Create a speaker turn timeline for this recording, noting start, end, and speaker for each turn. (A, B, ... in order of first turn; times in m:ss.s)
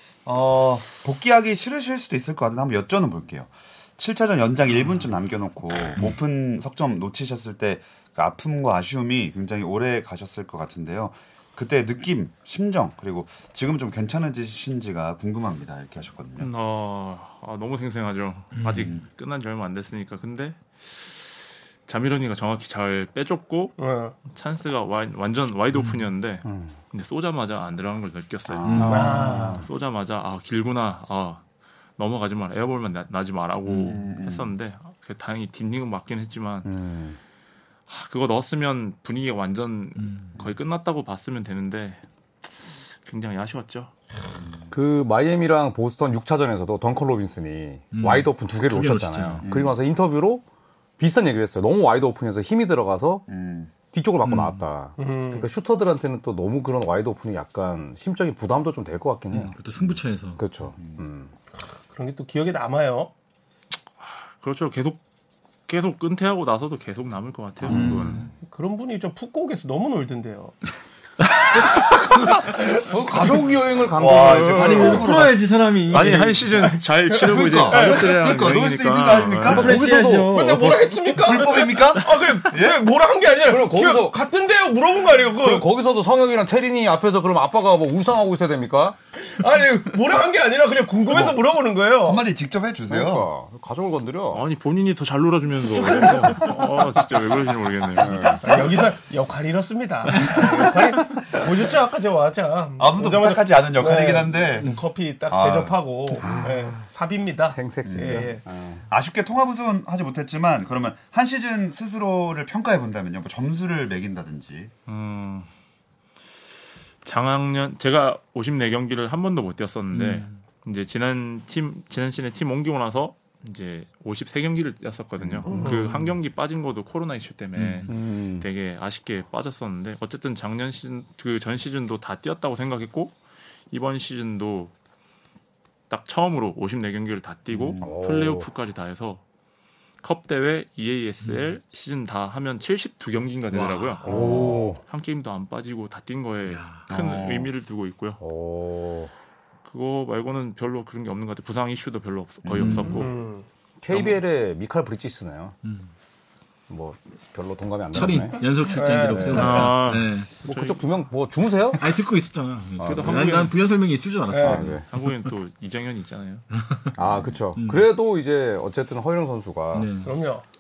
0:00.2-0:16.5 A
0:16.4-0:31.4 B
0:18.6-0:18.9 C
0:18.8-0:19.0 A
0:23.8-0:24.2 D
0:26.4-0:26.7 E
0:28.5-0:29.0 A
0:28.7-0:29.4 C
0:28.7-0:29.7 E
0:28.9-0:29.6 D
0:32.0-0:36.7 B
0:33.7-0:34.0 C
0:33.9-0:34.6 A
0:36.6-0:37.2 E
0:37.9-0:42.0 B
0:40.0-0:40.4 C
0:43.0-0:43.9 B
0:44.7-0:50.4 E
0:47.9-0:49.5 C
0:49.4-0:49.8 A
0:51.0-0:53.2 E
0:53.3-0:53.7 A
0:53.9-0:59.6 E
0:54.2-0:54.6 C
0:55.0-0:55.5 D
0:59.3-1:00.4 C
1:00.4-1:01.3 E
1:00.8-1:01.1 A
1:01.9-1:03.1 D
1:04.0-1:05.0 B
1:05.7-1:08.2 B
1:07.7-1:08.3 A
1:07.7-1:08.3 C
1:07.7-1:08.2 E
1:08.4-1:10.5 D
1:12.7-1:15.3 E
1:14.0-1:15.4 A
1:14.5-1:16.8 C
1:15.9-1:19.8 B
1:17.1-1:18.2 D
1:17.2-1:19.9 A
1:19.5-1:20.7 E
1:19.5-1:20.8 C
1:20.2-1:25.7 D
1:21.1-1:22.8 A
1:23.5-1:24.2 E
1:25.4-1:29.0 E
1:29.2-1:32.2 D
1:32.0-1:33.3 A
1:32.9-1:34.5 E
1:34.3-1:38.4 B
1:35.8-1:36.4 D
1:38.0-1:38.6 E
1:38.4-1:48.4 D
1:42.8-1:44.7 A
1:45.3-1:45.8 A
1:46.2-1:46.8 E
1:47.5-1:48.8 E
1:47.8-1:48.3 A
1:48.9-1:54.7 A
1:54.9-1:55.5 B
1:57.0-2:13.2 B
1:59.9-2:00.4 C
2:05.2-2:05.6 A
2:05.5-2:06.1 C
2:07.6-2:07.9 C
2:07.9-2:08.5 E
2:13.7-2:14.7 B
2:15.9-2:19.2 B
2:17.5-2:17.9 A
2:17.8-2:18.5 E
2:20.0-2:28.2 B
2:23.5-2:24.4 C
2:24.0-2:24.8 E
2:24.1-2:24.7 A
2:26.5-2:26.9 C
2:26.9-2:27.5 A
2:28.2-2:29.1 E
2:29.7-2:33.2 B
2:32.4-2:32.9 A
2:32.6-2:33.1 C
2:32.8-2:33.4 D
2:33.8-2:35.6 E
2:33.9-2:34.2 B
2:35.6-2:35.9 C
2:36.7-2:38.4 E
2:37.9-2:40.3 C
2:38.7-2:39.7 D
2:39.3-2:40.9 B
2:40.4-2:41.8 E
2:41.8-2:45.3 C
2:42.8-2:43.6 B
2:44.3-2:44.7 D
2:44.4-2:44.8 E
2:44.9-2:46.5 B
2:46.5-2:47.0 C
2:47.0-2:49.9 E
2:47.0-2:47.3 A
2:47.6-2:47.9 C
2:49.7-2:50.1 C
2:50.0-2:50.4 D